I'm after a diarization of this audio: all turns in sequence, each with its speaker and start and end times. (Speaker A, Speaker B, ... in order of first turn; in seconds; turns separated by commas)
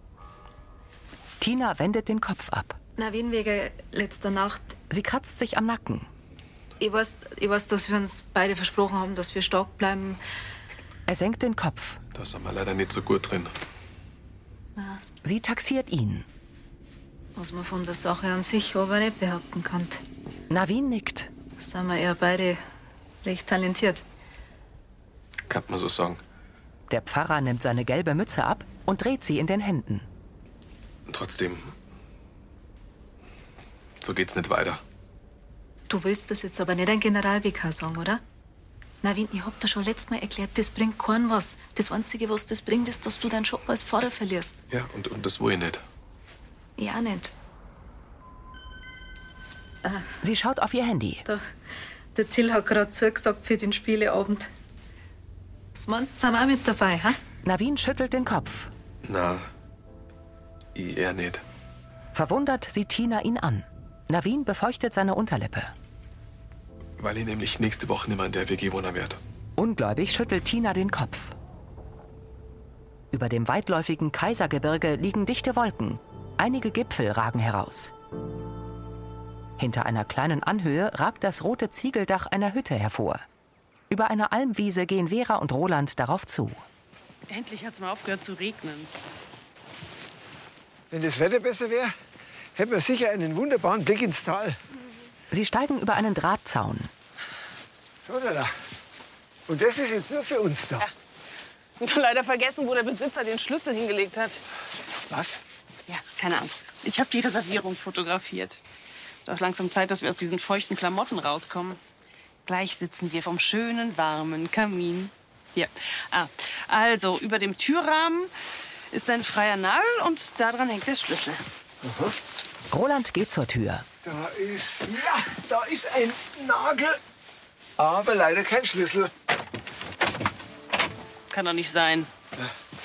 Speaker A: 1.4-2.8, Speaker B: 3.0-4.8, Speaker A: 4.9-6.1, Speaker B: 6.8-10.2, Speaker A: 11.1-12.0, Speaker C: 12.1-13.5, Speaker B: 14.8-15.0, Speaker A: 15.2-16.2, Speaker B: 17.4-20.0, Speaker A: 20.5-21.3, Speaker B: 21.6-22.6, Speaker B: 23.2-24.0, Speaker C: 25.5-26.2, Speaker A: 26.9-30.1, Speaker C: 31.1-31.7, Speaker C: 34.0-34.8, Speaker B: 35.9-38.2, Speaker B: 39.0-44.6, Speaker C: 44.7-45.8, Speaker B: 46.8-47.3, Speaker B: 49.8-50.1, Speaker A: 50.2-51.2, Speaker B: 52.1-54.5, Speaker B: 55.7-57.2, Speaker A: 57.4-58.7, Speaker C: 59.0-59.5, Speaker C: 60.7-61.4, Speaker A: 62.1-65.7, Speaker C: 67.0-69.2, Speaker A: 69.6-71.3, Speaker A: 73.1-77.9, Speaker A: 79.6-83.2, Speaker A: 83.9-86.6, Speaker D: 87.3-88.9, Speaker E: 90.9-91.9, Speaker E: 92.5-94.6, Speaker A: 95.3-96.9, Speaker E: 98.0-98.5, Speaker E: 99.5-100.9, Speaker D: 101.8-104.4, Speaker E: 105.1-105.4, Speaker D: 105.9-108.6, Speaker D: 109.2-111.8, Speaker D: 112.5-118.3, Speaker D: 118.9-121.4, Speaker E: 121.8-122.1, Speaker A: 122.7-123.9, Speaker E: 124.0-127.0, Speaker E: 127.8-129.1, Speaker D: 131.3-132.1